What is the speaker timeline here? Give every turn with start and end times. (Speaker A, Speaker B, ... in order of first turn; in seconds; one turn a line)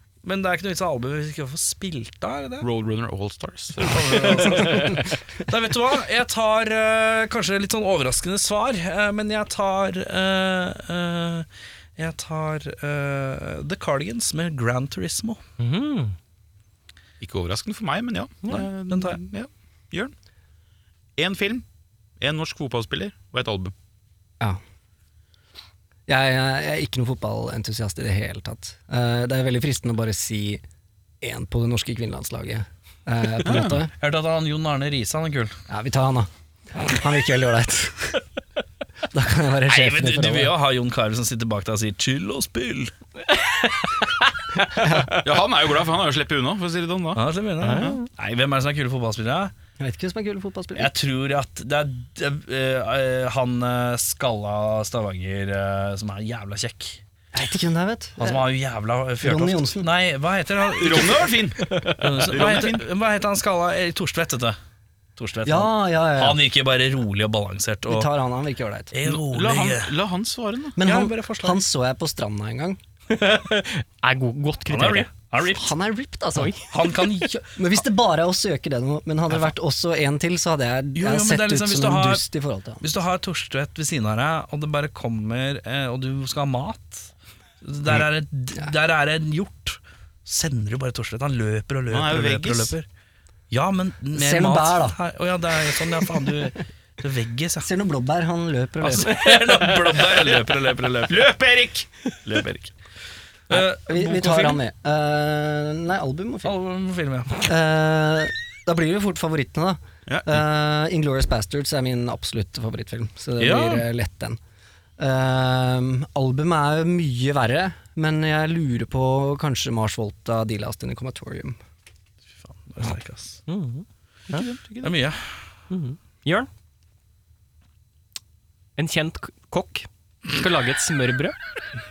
Speaker A: 0.2-2.7
Speaker B: 2.6-5.0
Speaker A: 3.8-15.4
Speaker C: 15.6-16.1
Speaker B: 17.2-20.1
Speaker A: 18.5-19.2
Speaker B: 21.2-21.6
Speaker B: 22.2-23.7
Speaker D: 26.1-30.6
Speaker D: 31.2-33.9
Speaker B: 33.4-33.8
Speaker A: 33.9-35.6
Speaker D: 35.7-38.2
Speaker D: 39.1-40.5
Speaker A: 39.7-42.9
Speaker D: 44.7-45.2
Speaker B: 45.1-47.9
Speaker A: 47.1-49.5
Speaker C: 47.6-48.1
Speaker D: 49.8-50.9
Speaker A: 50.8-57.0
Speaker D: 57.3-58.5
Speaker A: 58.2-64.6
Speaker D: 59.2-59.9
Speaker B: 60.8-62.9
Speaker A: 65.2-68.1
Speaker D: 65.5-66.4
Speaker D: 67.9-68.9
Speaker A: 68.9-70.0
Speaker B: 69.0-70.8
Speaker D: 70.8-72.8
Speaker A: 70.8-71.7
Speaker C: 73.1-75.1
Speaker A: 74.7-75.8
Speaker D: 75.5-76.6
Speaker C: 76.4-76.7
Speaker A: 76.6-77.4
Speaker D: 77.2-82.8
Speaker A: 81.0-82.2
Speaker A: 82.8-92.9
Speaker B: 91.9-92.8
Speaker A: 93.5-97.7
Speaker D: 94.1-95.0
Speaker D: 97.6-99.2
Speaker A: 98.8-101.3
Speaker C: 99.0-99.9
Speaker B: 101.1-101.9
Speaker A: 102.2-102.7
Speaker A: 103.5-104.6
Speaker D: 103.5-106.5
Speaker A: 106.4-107.5
Speaker D: 107.4-114.4
Speaker B: 110.1-110.4
Speaker A: 113.4-113.9
Speaker D: 115.0-121.6
Speaker A: 122.4-123.4
Speaker C: 123.5-124.5
Speaker B: 124.3-125.0
Speaker A: 124.8-125.3
Speaker C: 125.7-126.5
Speaker C: 128.8-131.4